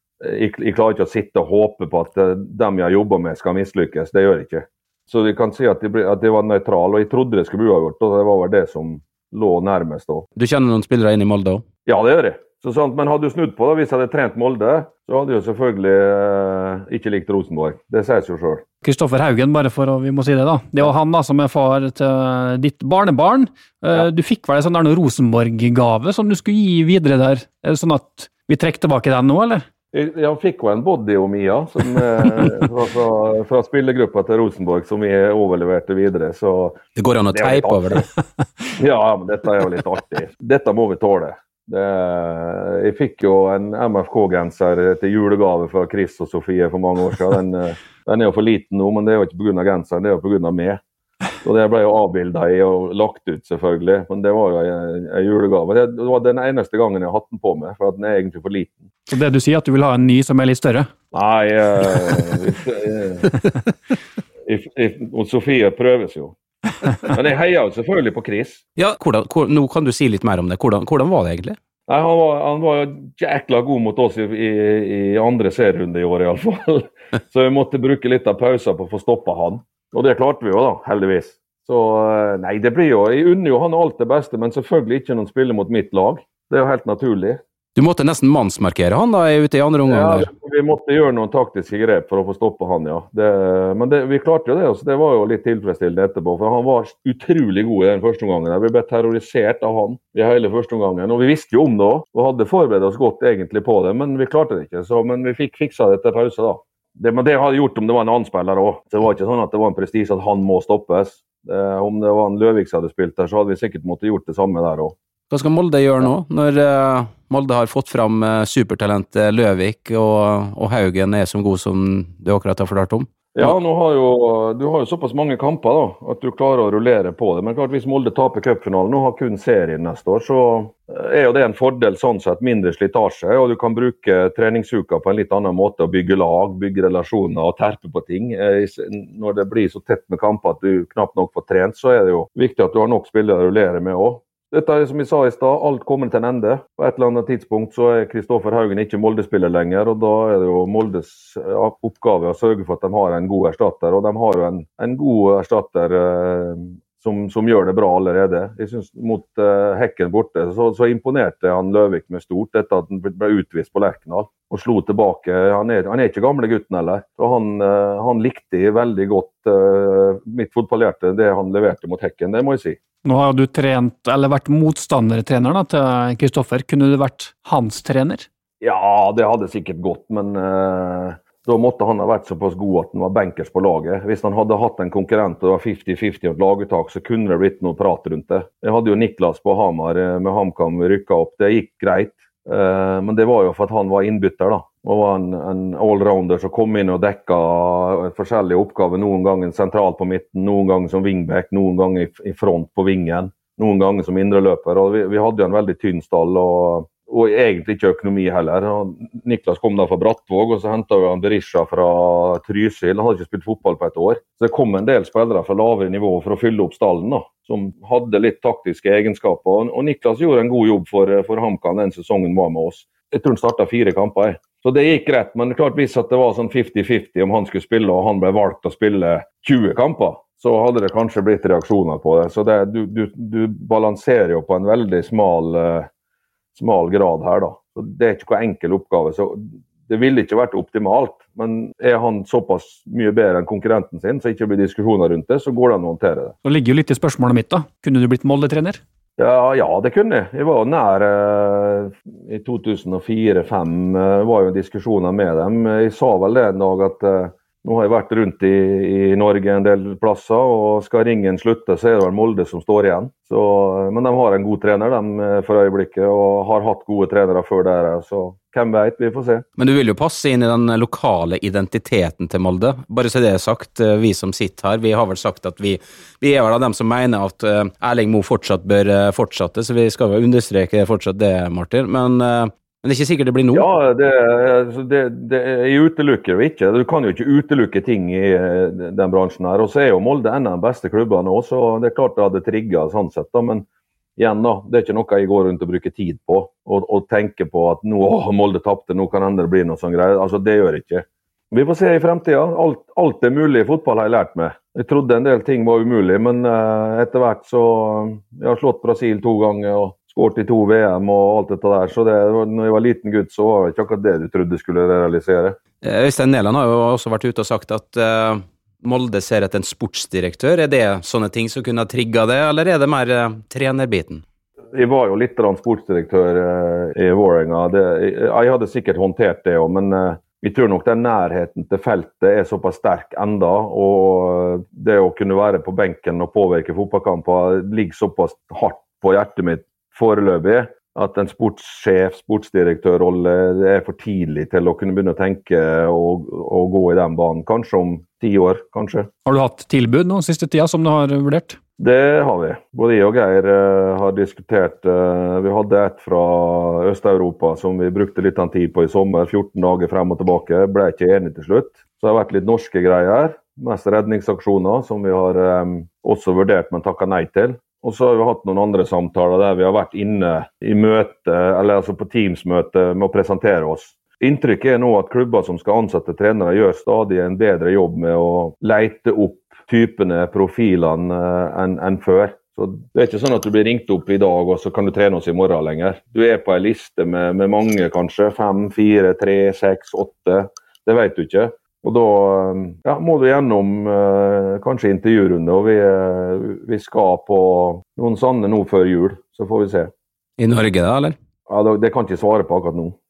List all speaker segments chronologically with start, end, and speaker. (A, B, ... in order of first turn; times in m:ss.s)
0:00.2-0:10.3 A
0:10.4-0:11.6 B
0:11.9-0:18.6 A
0:18.8-0:29.6 C
0:29.9-0:36.8 A
0:37.0-0:38.1 B
0:37.3-0:38.0 A
0:38.8-0:50.8 A
0:51.4-0:58.9 A
0:59.1-1:00.9 C
1:01.1-1:03.4 A
1:04.5-1:06.4 A
1:07.0-1:08.6 A
1:08.8-1:11.6 B
1:11.9-1:27.4 A
1:27.8-1:30.3 B
1:29.9-1:55.0 A
1:55.3-2:03.5 B
2:03.4-2:52.8 A
2:53.0-2:58.3 C
2:58.6-3:55.9 A
3:56.6-4:06.4 A
4:06.4-4:08.8 C
4:09.2-4:29.4 A
4:29.6-4:43.7 B
4:43.5-4:53.6 A
4:54.2-5:15.6 A
5:15.8-5:24.2 B
5:24.7-5:49.1 A
5:49.3-5:51.6 C
5:51.8-6:39.9 A
6:40.4-6:41.2 B
6:41.5-6:43.0 A